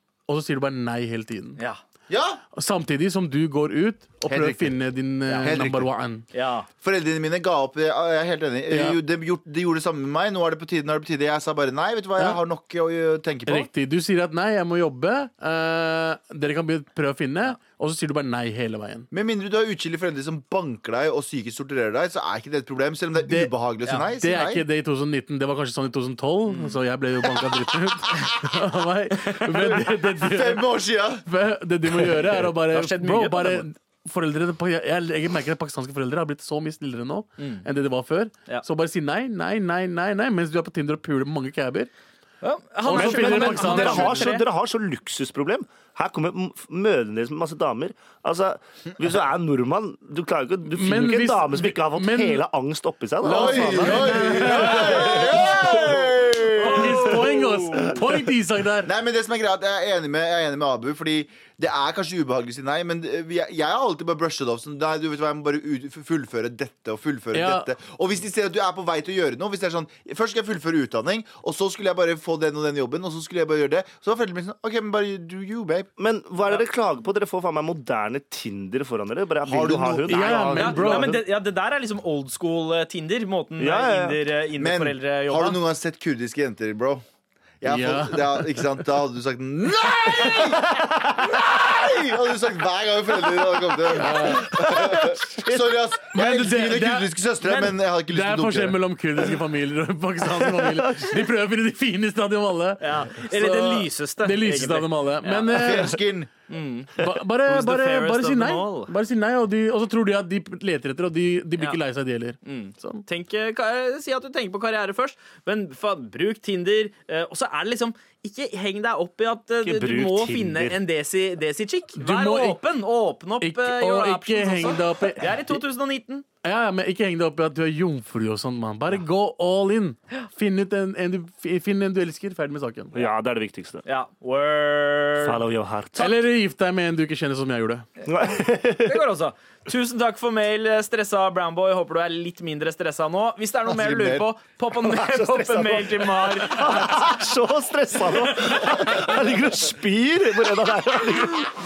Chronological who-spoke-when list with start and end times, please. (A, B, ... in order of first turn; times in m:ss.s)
0:00.3-0:01.6 A
0:02.1-0:02.4 B
0:02.6-0:06.2 A
0:04.3-0:04.8 B
0:05.3-0:05.6 C
0:05.4-0:05.9 B
0:06.3-0:06.7 C
0:06.8-0:13.7 B
0:08.7-0:09.0 A
0:13.5-0:19.1 A
0:19.1-0:24.6 B
0:23.2-0:23.5 A
0:24.1-0:30.7 A
0:26.5-0:26.8 C
0:30.2-0:31.2 B
0:31.2-0:41.9 A
0:32.7-0:33.7 C
0:37.4-0:37.6 C
0:42.4-0:44.5 C
0:42.8-0:44.3 A
0:42.9-0:54.1 D
0:50.7-0:52.4 A
0:53.2-0:55.4 A
0:53.2-0:57.2 B
0:53.8-0:55.3 C
0:56.6-0:58.9 A
0:56.6-0:58.0 C
0:58.8-1:15.9 B
1:07.3-1:07.7 A
1:16.0-1:21.2 D
1:19.4-1:20.9 B
1:20.1-1:21.3 A
1:20.6-1:25.6 C
1:23.6-1:24.2 D
1:24.6-1:27.0 B
1:27.6-1:38.8 B
1:27.6-1:28.7 A
1:34.0-1:34.7 A
1:34.5-1:35.6 D
1:36.1-1:37.1 A
1:37.4-1:37.8 C
1:38.1-1:46.0 A
1:40.3-1:41.2 D
1:42.8-1:45.7 C
1:45.5-1:46.3 B
1:46.5-1:48.9 C
1:47.0-1:53.0 A
1:52.4-2:06.2 C
1:59.6-2:00.8 D
2:02.0-2:02.6 A
2:03.4-2:05.6 A
2:06.4-2:12.9 A
2:12.9-2:13.9 D
2:13.9-2:15.4 C
2:15.2-2:16.2 D
2:16.0-2:17.9 A
2:18.1-2:19.0 D
2:18.3-2:27.2 C
2:23.7-2:24.3 B
2:24.8-2:31.5 D